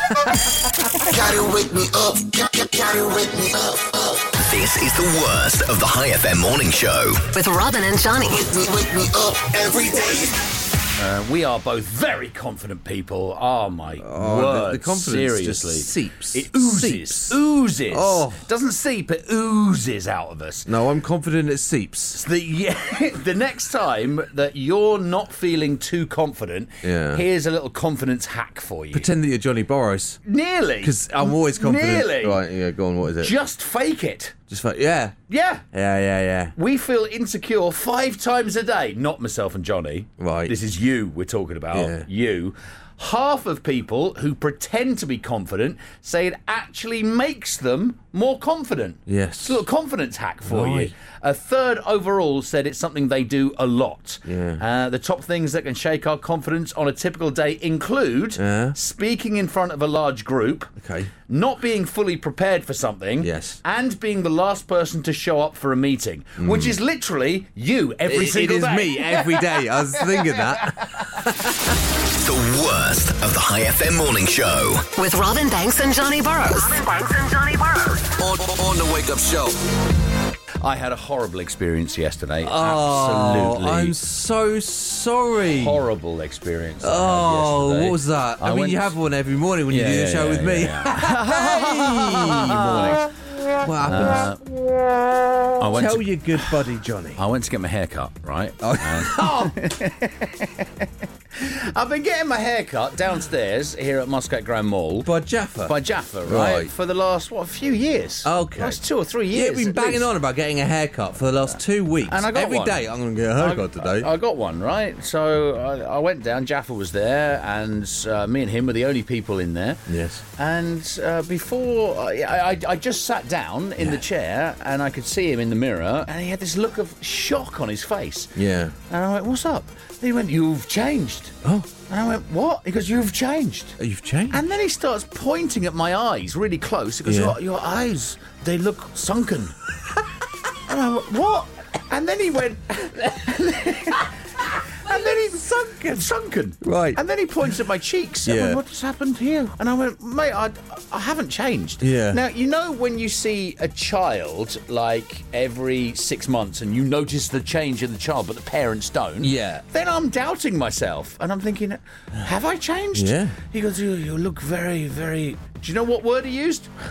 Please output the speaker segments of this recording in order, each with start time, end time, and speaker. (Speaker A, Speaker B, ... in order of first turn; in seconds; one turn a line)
Speaker A: 1.0-4.3
Speaker B: 4.4-7.3
Speaker C: 7.3-8.4
Speaker A: 8.4-10.4
Speaker D: 11.0-20.7
Speaker E: 14.0-18.4
Speaker E: 20.6-22.2
Speaker D: 22.1-29.1
Speaker E: 26.8-27.2
Speaker E: 28.9-30.2
Speaker D: 30.2-32.4
Speaker E: 30.8-33.3
Speaker D: 33.2-34.4
Speaker E: 34.5-35.1
Speaker D: 35.3-35.6
Speaker E: 35.7-36.5
Speaker D: 36.5-60.7
Speaker E: 40.2-40.5
Speaker E: 41.7-42.1
Speaker E: 49.1-49.6
Speaker E: 50.4-50.9
Speaker E: 54.2-54.6
Speaker E: 58.4-58.8
Speaker E: 60.8-61.1
Speaker D: 61.3-70.8
Speaker E: 63.2-63.6
Speaker E: 66.4-66.8
Speaker E: 68.0-71.7
Speaker B: 72.0-74.9
Speaker C: 75.0-78.1
Speaker A: 78.1-79.6
Speaker D: 80.6-83.9
Speaker E: 82.4-85.8
Speaker D: 85.5-88.9
Speaker E: 86.8-93.0
Speaker D: 89.7-93.1
Speaker E: 93.5-94.3
Speaker D: 93.8-94.4
Speaker D: 95.6-96.5
Speaker E: 95.7-97.2
Speaker D: 97.2-100.7
Speaker E: 98.6-99.6
Speaker D: 101.4-105.1
Speaker E: 105.0-106.7
Speaker D: 105.6-110.1
Speaker E: 108.2-114.1
Speaker D: 112.1-119.8
Speaker E: 119.9-120.2
Speaker D: 120.3-128.3
Speaker E: 128.3-128.7
Speaker D: 128.9-131.4
Speaker D: 131.9-133.8
Speaker E: 133.8-134.4
Speaker D: 134.3-139.5
Speaker E: 137.0-137.4
Speaker D: 140.6-166.7
Speaker E: 144.8-146.0
Speaker E: 146.6-147.0
Speaker E: 148.2-148.6
Speaker E: 151.8-152.2
Speaker E: 159.2-159.6
Speaker E: 162.9-163.4